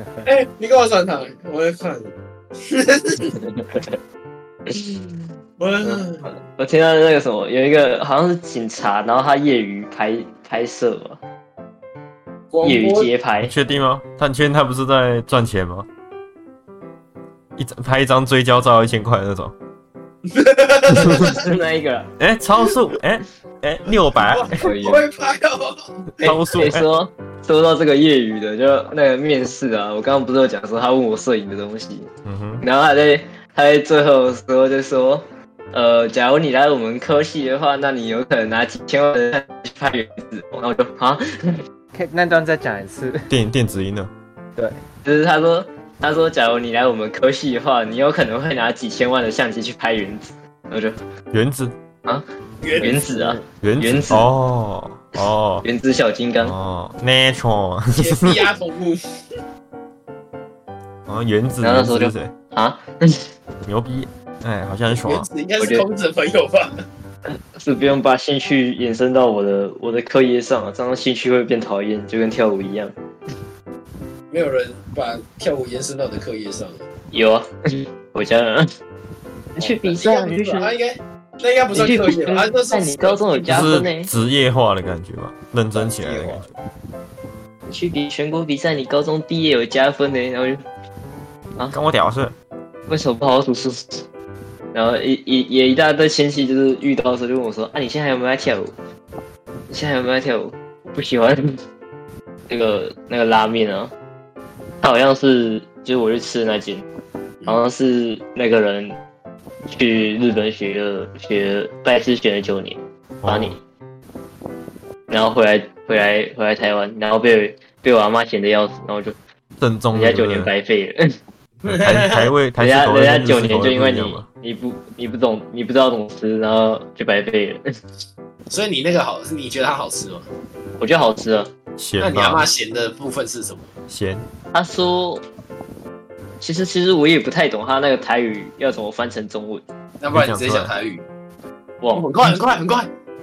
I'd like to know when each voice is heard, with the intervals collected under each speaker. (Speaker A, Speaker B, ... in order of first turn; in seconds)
Speaker A: 0.2-3.4, 5.6-6.3, 12.5-13.1, 20.3-21.4, 24.1-26.4, 52.6-53.1, 58.0-59.0, 64.9-66.8, 74.3-76.8, 79.6-83.7, 121.6-122.3, 128.5-130.3, 132.0-133.7, 140.0-141.1, 141.9-142.9
Speaker B: 3.4-3.9, 4.7-5.1, 5.8-11.2, 12.6-13.5, 21.0-22.1, 24.6-25.1, 26.6-32.1, 32.6-41.6, 45.0-51.0, 52.8-54.3, 55.6-56.5, 61.6-63.2, 65.6-65.9, 67.3-72.9, 77.1-78.7, 79.6-80.7, 81.7-84.1, 87.7-90.6, 92.9-94.0, 94.7-98.7, 99.7-101.4, 102.5-103.9, 104.8-106.9, 107.5-109.0, 109.7-113.6, 115.1-119.2, 119.9-121.0, 122.6-127.6, 130.8-131.5, 134.5-135.2, 136.4-139.6, 141.8-142.1
Speaker C: 13.4-15.9, 17.6-19.6, 21.0-21.3, 22.2-24.7, 26.2-26.9, 32.2-32.6, 43.3-44.1, 51.3-51.8, 53.6-55.7, 56.4-58.4, 61.1-62.3, 63.6-65.3, 83.5-86.5, 91.7-92.3, 113.2-113.6, 119.6-120.5, 121.7-124.3, 131.8-132.5, 133.9-134.3, 140.1-140.7
Speaker D: 41.9-43.3, 52.8-53.3, 85.8-86.5